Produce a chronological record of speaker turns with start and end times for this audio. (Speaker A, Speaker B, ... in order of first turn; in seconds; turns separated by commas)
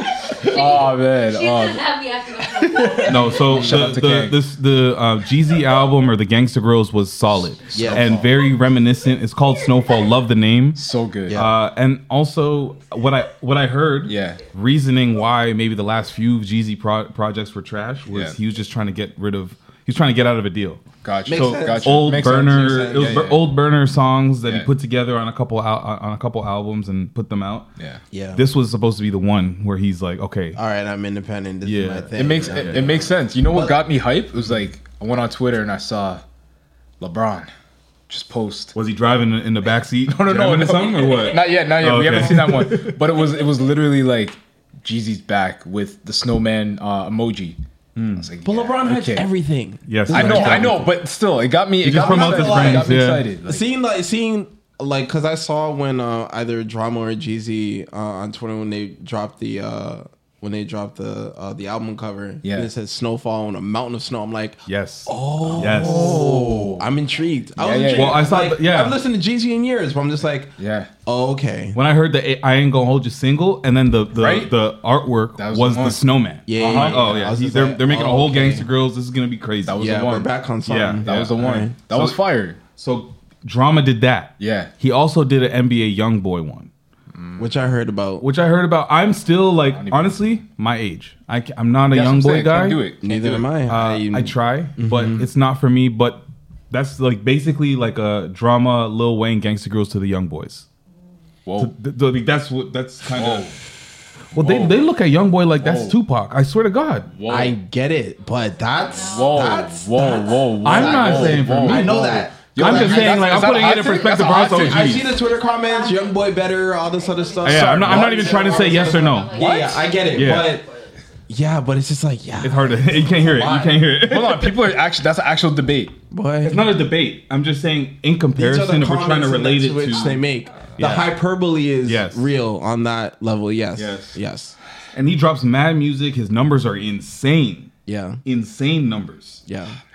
Speaker A: 0.4-1.9, Speaker B: 0.4-3.3, Speaker A: 2.6-4.4, Speaker C: 3.0-27.7, Speaker D: 3.5-3.9, Speaker A: 7.7-8.3, Speaker D: 7.7-8.2, Speaker A: 10.8-11.4, Speaker D: 11.3-11.6, Speaker A: 14.0-14.4, Speaker A: 18.1-18.4, Speaker A: 21.0-23.4, Speaker D: 21.3-23.3, Speaker A: 24.4-24.7, Speaker A: 27.8-28.0, Speaker D: 28.1-28.4, Speaker C: 28.3-30.6, Speaker D: 30.5-33.8, Speaker C: 31.6-33.1, Speaker A: 32.1-36.2, Speaker A: 37.0-37.5, Speaker A: 38.1-38.7, Speaker C: 38.7-43.0, Speaker A: 40.0-47.6, Speaker C: 48.0-48.3, Speaker A: 48.1-49.3, Speaker D: 48.4-50.9, Speaker C: 49.9-50.9, Speaker A: 50.1-53.7, Speaker C: 51.8-53.3, Speaker D: 51.9-70.5, Speaker A: 62.4-62.7, Speaker C: 64.7-66.3, Speaker A: 65.4-66.9, Speaker A: 67.6-68.3, Speaker C: 67.9-69.0, Speaker A: 70.6-70.9, Speaker D: 71.0-71.8, Speaker C: 71.7-80.0, Speaker A: 74.1-74.5, Speaker A: 75.4-76.0, Speaker D: 76.5-78.7, Speaker A: 76.5-77.3, Speaker A: 79.7-80.3, Speaker D: 79.8-81.8, Speaker C: 80.7-86.7, Speaker A: 81.0-82.6, Speaker A: 84.4-84.7, Speaker A: 87.1-87.5, Speaker D: 87.4-88.2, Speaker C: 88.2-92.9, Speaker A: 89.7-90.4, Speaker A: 91.9-93.5, Speaker D: 93.0-95.3, Speaker C: 93.7-100.7, Speaker A: 101.5-101.7, Speaker C: 101.6-103.5, Speaker A: 103.1-103.5, Speaker C: 104.3-107.1, Speaker A: 104.3-104.8, Speaker A: 105.6-106.0, Speaker A: 107.1-107.6, Speaker D: 107.3-120.7, Speaker B: 108.8-109.3, Speaker A: 109.0-115.0, Speaker C: 110.6-115.1, Speaker B: 114.0-114.4, Speaker B: 115.0-120.3, Speaker C: 117.4-119.5, Speaker A: 119.4-119.9, Speaker C: 120.1-120.6, Speaker D: 121.3-123.8, Speaker C: 122.4-124.6, Speaker A: 124.0-125.9, Speaker D: 126.1-126.7, Speaker C: 126.4-130.2, Speaker D: 128.3-134.6, Speaker C: 130.8-131.1, Speaker C: 131.8-132.2, Speaker A: 133.8-134.2, Speaker C: 134.9-137.7, Speaker D: 137.8-138.2, Speaker C: 138.2-139.4, Speaker D: 139.5-139.8